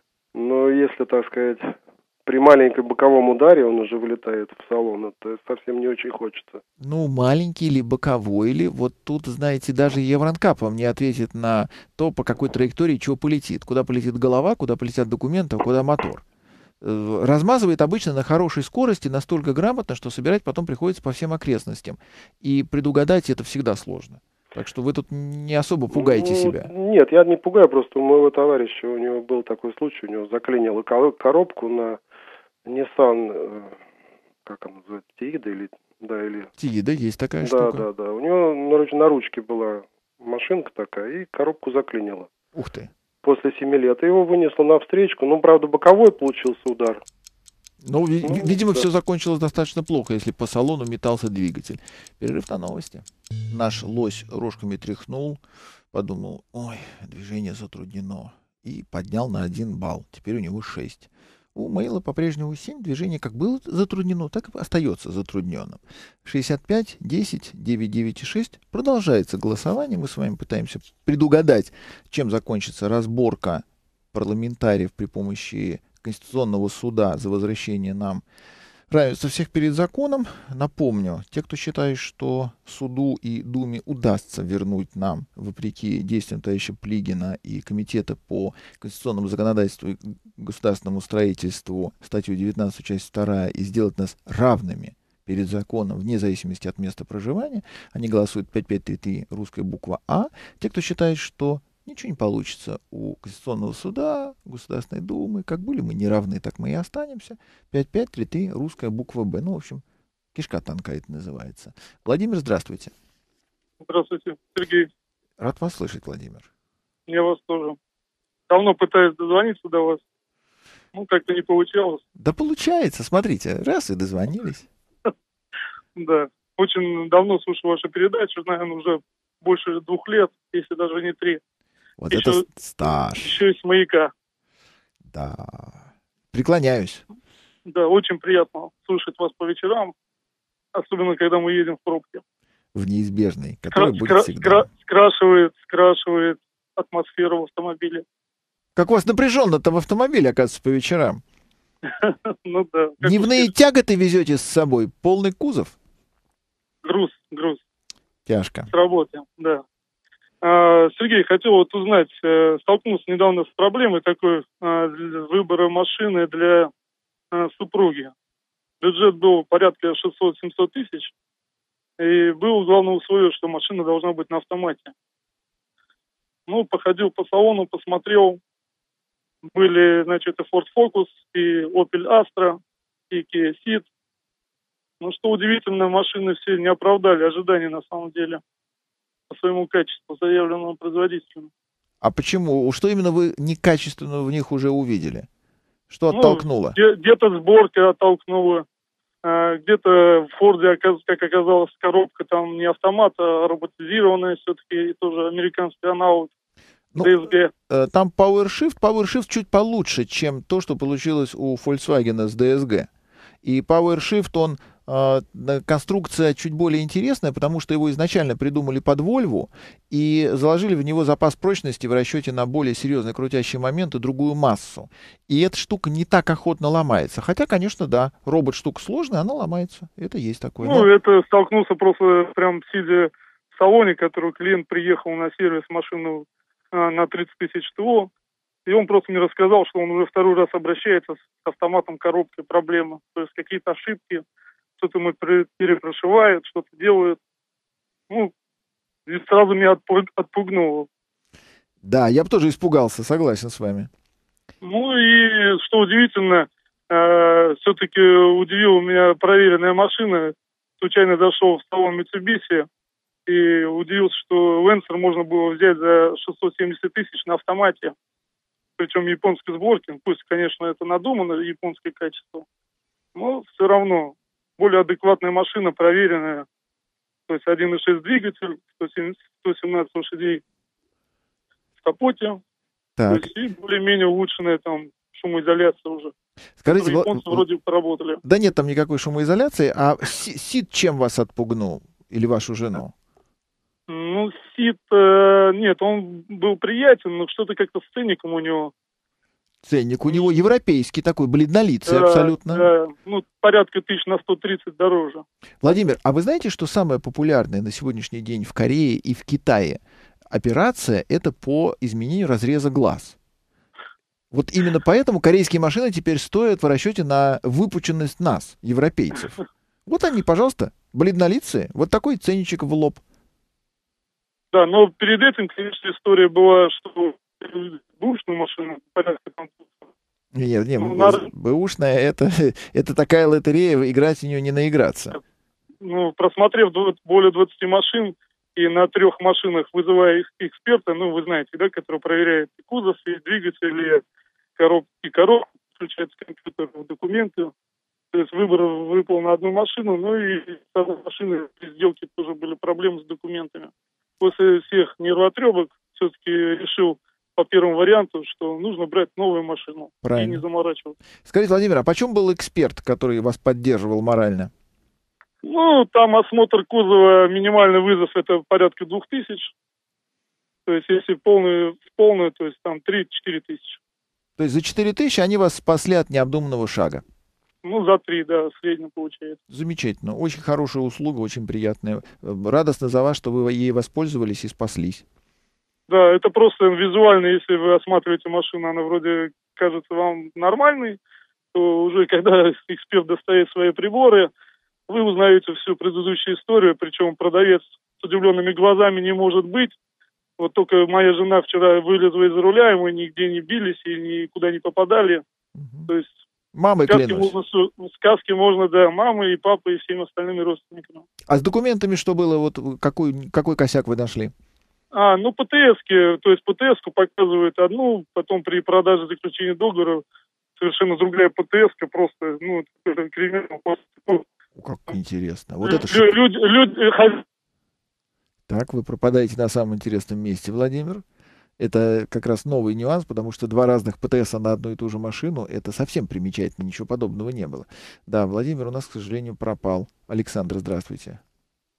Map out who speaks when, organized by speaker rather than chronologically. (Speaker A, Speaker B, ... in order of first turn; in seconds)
Speaker A: 0.3-6.6, 25.9-32.0, 32.6-33.8, 34.5-36.5, 37.4-42.3, 43.2-47.0, 48.2-48.9
Speaker B: 6.8-16.2, 16.8-26.7, 36.6-37.9, 42.5-42.9, 47.8-55.4, 55.9-78.2, 78.9-109.8, 110.3-112.9, 115.4-116.5, 122.2-124.7, 132.0-133.4, 135.1-137.0, 142.8-144.7, 148.8-151.2, 153.0-155.8, 158.3-158.7, 192.0-195.3, 195.9-196.8, 206.9-212.9, 213.4-230.9, 251.8-253.9, 283.0-283.3, 286.6-287.5, 288.2-292.9, 299.6-302.7, 305.6-309.8, 310.3-313.2, 314.3-323.0, 330.4-335.2, 360.0-360.4, 361.3-364.5, 374.4-377.0, 379.5-385.1, 405.6-405.9, 406.5-407.4, 411.3-414.3, 424.6-426.2, 428.5-431.0, 431.6-441.2
Speaker C: 113.8-114.9, 117.1-117.8, 118.5-120.0, 120.9-122.0, 126.0-131.4, 132.1-132.4, 133.1-134.1, 137.7-139.9, 140.7-142.2, 143.7-148.1, 151.9-153.5, 156.8-157.6, 158.7-159.6, 160.4-166.7, 167.3-168.1, 168.8-171.1, 172.0-174.9, 176.5-178.4, 179.4-183.9, 185.0-188.4, 189.3-191.5, 196.1-198.7, 199.2-206.3, 207.0-207.5, 230.6-238.1, 238.7-244.2, 244.8-247.2, 249.1-250.9, 254.6-262.7, 263.3-267.9, 268.8-272.5, 273.1-276.5, 277.3-280.4, 281.8-282.4, 283.1-286.1, 286.7-288.2, 293.9-298.7, 301.9-305.2, 324.5-329.8, 330.8-331.3, 335.8-344.0, 344.6-347.5, 348.1-361.0, 365.4-369.5, 370.7-373.8, 377.6-379.4, 385.9-391.0, 391.5-394.3, 394.9-399.8, 400.4-405.2, 405.9-406.1, 406.9-411.1, 414.9-420.0, 420.6-424.2, 425.6-427.2